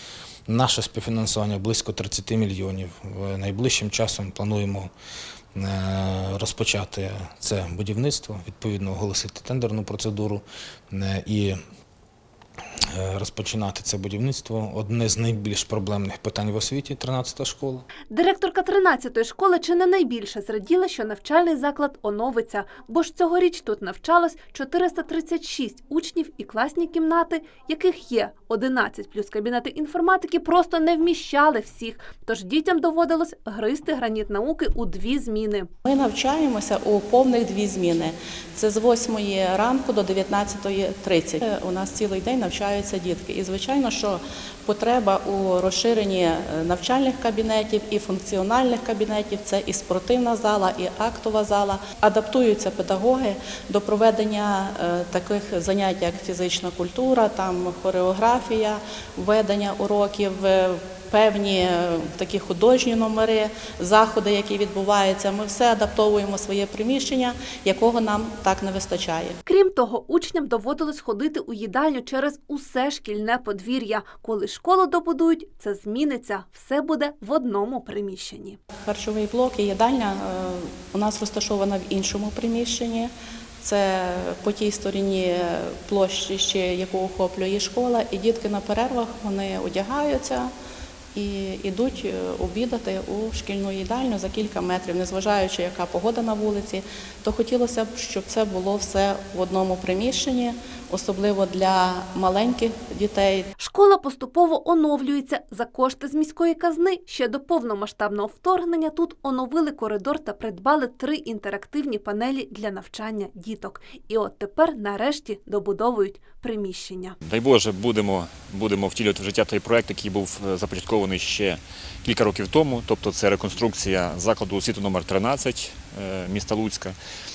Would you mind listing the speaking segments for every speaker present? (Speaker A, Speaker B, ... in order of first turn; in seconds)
Speaker A: 0.5-4.9, 5.5-11.6, 12.9-17.8
Speaker B: 18.1-35.7, 69.5-78.6, 103.6-117.2
Speaker C: 35.8-69.3, 78.8-90.5, 91.1-103.5
Speaker D: 117.2-127.0